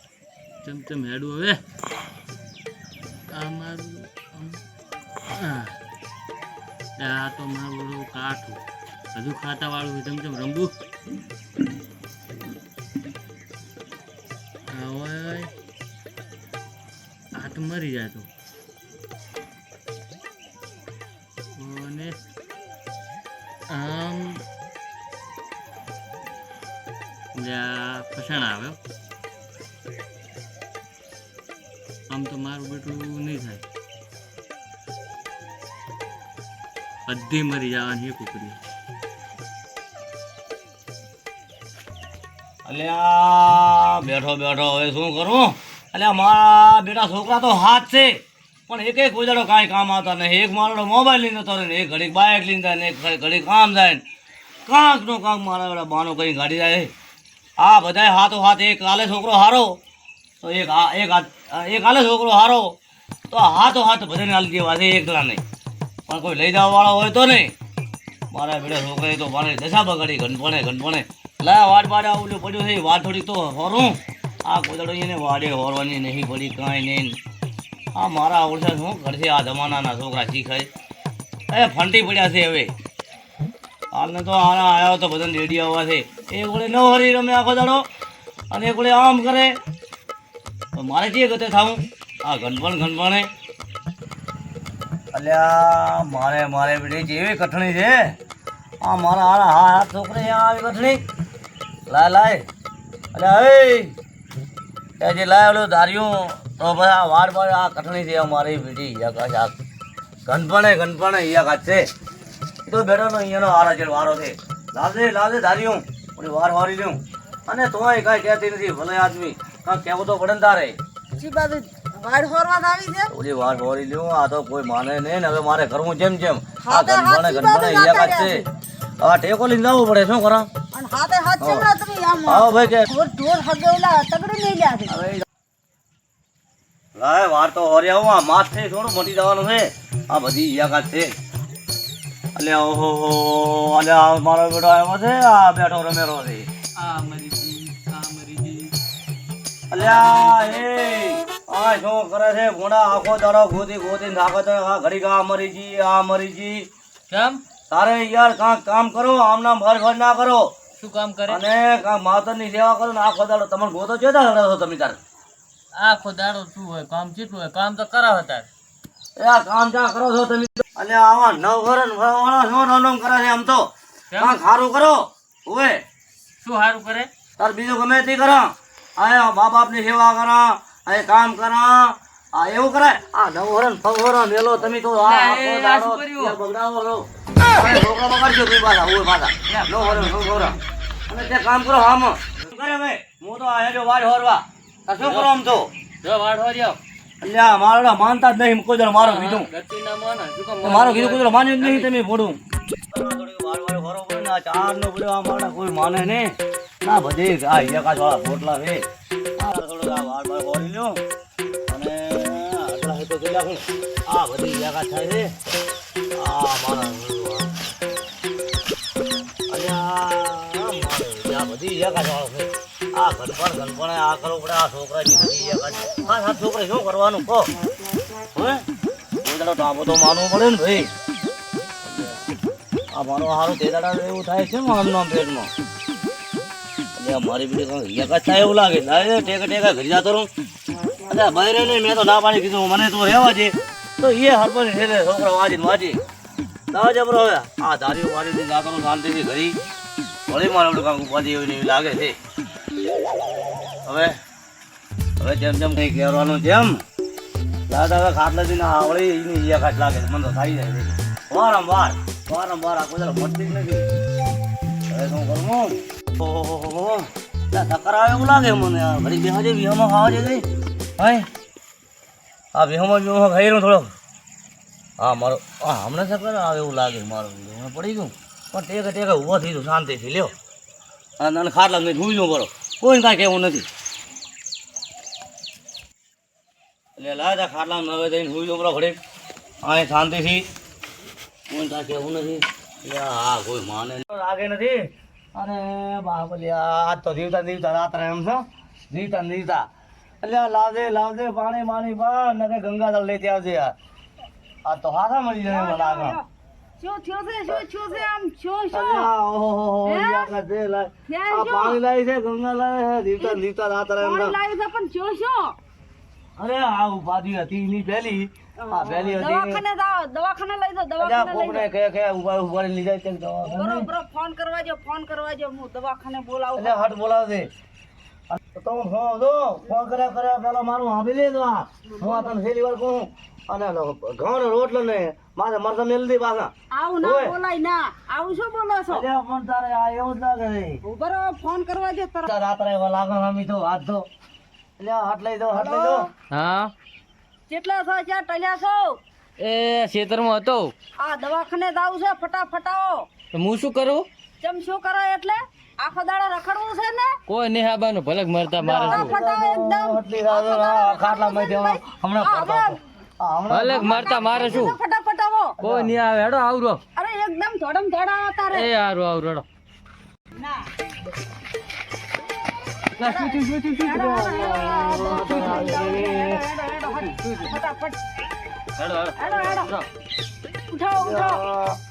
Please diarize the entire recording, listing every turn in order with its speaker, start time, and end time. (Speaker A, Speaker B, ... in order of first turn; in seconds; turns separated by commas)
Speaker A: 0.6-1.6, Speaker A: 3.3-4.6, Speaker A: 5.2-5.8, Speaker A: 7.0-8.6, Speaker A: 9.1-10.7, Speaker A: 14.7-15.5, Speaker A: 17.4-18.3, Speaker A: 21.5-22.2, Speaker A: 23.7-24.4, Speaker A: 27.3-28.8, Speaker A: 32.1-33.6, Speaker A: 37.1-38.6, Speaker B: 42.6-54.0, Speaker B: 54.6-56.9, Speaker B: 57.6-59.8, Speaker B: 60.4-62.8, Speaker B: 63.3-65.4, Speaker B: 66.1-67.5, Speaker B: 68.3-77.1, Speaker B: 77.9-80.7, Speaker B: 81.5-82.7, Speaker B: 83.9-87.9, Speaker B: 88.5-89.5, Speaker B: 90.7-93.3, Speaker B: 95.1-98.2, Speaker B: 98.8-101.0, Speaker B: 101.9-102.5, Speaker B: 103.1-103.9, Speaker B: 105.0-109.5, Speaker B: 110.2-111.9, Speaker B: 112.7-120.8, Speaker C: 121.2-123.1, Speaker B: 123.1-128.4, Speaker C: 126.6-128.5, Speaker B: 129.0-130.5, Speaker C: 130.7-134.9, Speaker B: 131.4-131.7, Speaker B: 132.2-132.9, Speaker B: 134.9-135.2, Speaker B: 136.9-141.1, Speaker B: 142.3-146.5, Speaker A: 146.8-148.7, Speaker B: 149.7-156.7, Speaker A: 149.7-150.6, Speaker A: 157.1-157.4, Speaker B: 157.7-160.5, Speaker A: 160.8-161.4, Speaker B: 161.3-165.0, Speaker A: 165.7-168.5, Speaker B: 169.2-175.8, Speaker A: 174.1-174.4, Speaker A: 176.4-177.1, Speaker B: 177.4-190.6, Speaker A: 185.0-186.4, Speaker A: 189.5-190.5, Speaker B: 191.1-195.7, Speaker A: 194.9-195.3, Speaker A: 196.0-196.8, Speaker B: 197.2-199.5, Speaker A: 199.0-201.9, Speaker B: 200.6-208.8, Speaker B: 209.4-211.0, Speaker B: 211.7-215.3, Speaker B: 216.2-217.5, Speaker B: 219.5-227.5, Speaker B: 228.3-228.6, Speaker B: 229.2-230.9, Speaker B: 231.9-232.1, Speaker B: 232.9-235.5, Speaker B: 237.0-240.3, Speaker B: 241.1-246.0, Speaker B: 246.7-249.6, Speaker B: 250.3-252.2, Speaker B: 253.8-254.2, Speaker B: 255.2-256.8, Speaker B: 257.7-263.9, Speaker B: 264.9-270.4, Speaker B: 271.0-271.3, Speaker B: 272.5-273.9, Speaker B: 275.0-280.3, Speaker B: 281.2-283.7, Speaker B: 287.0-289.0, Speaker B: 289.6-290.5, Speaker B: 291.5-299.7, Speaker B: 300.2-303.7, Speaker B: 304.6-306.2, Speaker C: 305.4-306.2, Speaker C: 306.8-309.1, Speaker B: 308.7-314.4, Speaker C: 309.8-310.3, Speaker C: 311.1-311.8, Speaker C: 313.2-313.4, Speaker C: 314.0-315.6, Speaker B: 316.4-319.6, Speaker C: 318.6-321.7, Speaker B: 321.0-323.9, Speaker C: 323.4-326.8, Speaker B: 326.5-327.5, Speaker B: 328.3-337.4, Speaker C: 336.7-339.1, Speaker B: 338.9-340.8, Speaker C: 340.8-342.3, Speaker B: 342.2-344.1, Speaker B: 344.8-346.1, Speaker C: 345.5-346.1, Speaker A: 346.3-346.7, Speaker C: 347.5-349.0, Speaker A: 349.4-350.7, Speaker C: 351.0-353.1, Speaker A: 353.3-354.1, Speaker C: 354.4-357.1, Speaker A: 357.3-359.1, Speaker B: 358.6-364.6, Speaker C: 358.8-362.8, Speaker A: 363.5-364.8, Speaker C: 363.8-365.6, Speaker B: 365.6-366.0, Speaker A: 365.6-366.8, Speaker C: 366.9-368.7, Speaker A: 368.5-369.4, Speaker C: 370.4-370.6, Speaker A: 372.9-374.4, Speaker C: 373.0-378.0, Speaker B: 373.9-376.4, Speaker A: 375.0-375.7, Speaker A: 376.9-377.6, Speaker A: 378.8-379.9, Speaker C: 379.1-379.7, Speaker C: 380.7-381.4, Speaker B: 381.0-381.8